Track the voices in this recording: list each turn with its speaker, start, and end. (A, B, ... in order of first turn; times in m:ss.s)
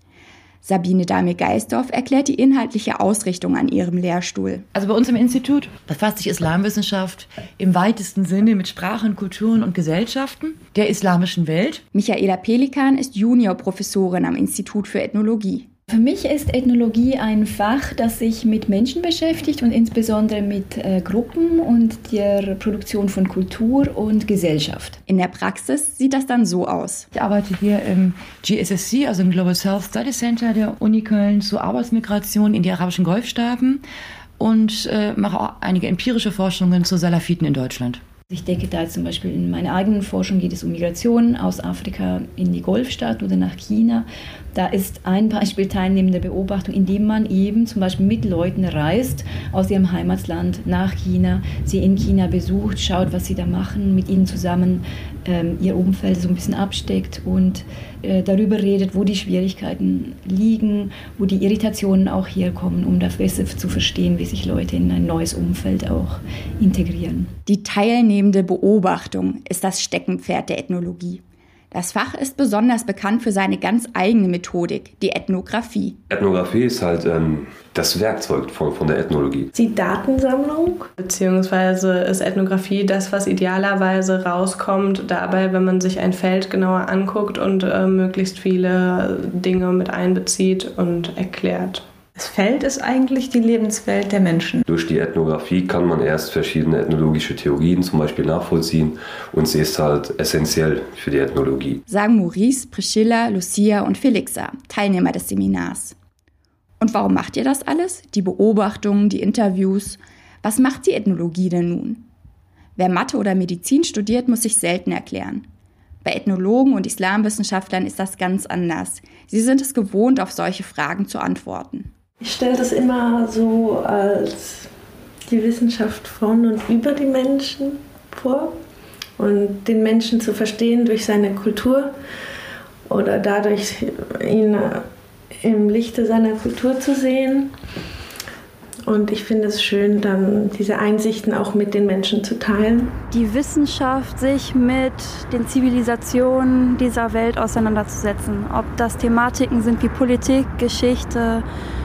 0:00.6-0:04.7 A
0:04.7-0:11.8 B
0:11.9-0:15.7 A
0:15.9-0:25.0 C
0:25.1-0:27.1 A
0:27.1-0:33.8 B
0:34.4-0:38.0 B
0:38.3-1:07.3 C
1:07.5-1:16.0 A
1:16.1-1:19.5 D
1:19.5-1:20.9 E
1:21.0-1:31.8 F
1:32.2-1:34.6 G
1:34.7-1:41.8 D
1:41.9-1:46.0 A
1:46.8-1:52.1 A
1:52.8-1:55.5 A
1:56.0-2:01.9 A
2:02.2-2:04.7 E
2:05.3-2:08.6 E
2:09.2-2:11.9 E
2:12.9-2:14.8 E
2:15.4-2:17.5 E
2:18.8-2:23.0 E
2:23.1-2:31.4 H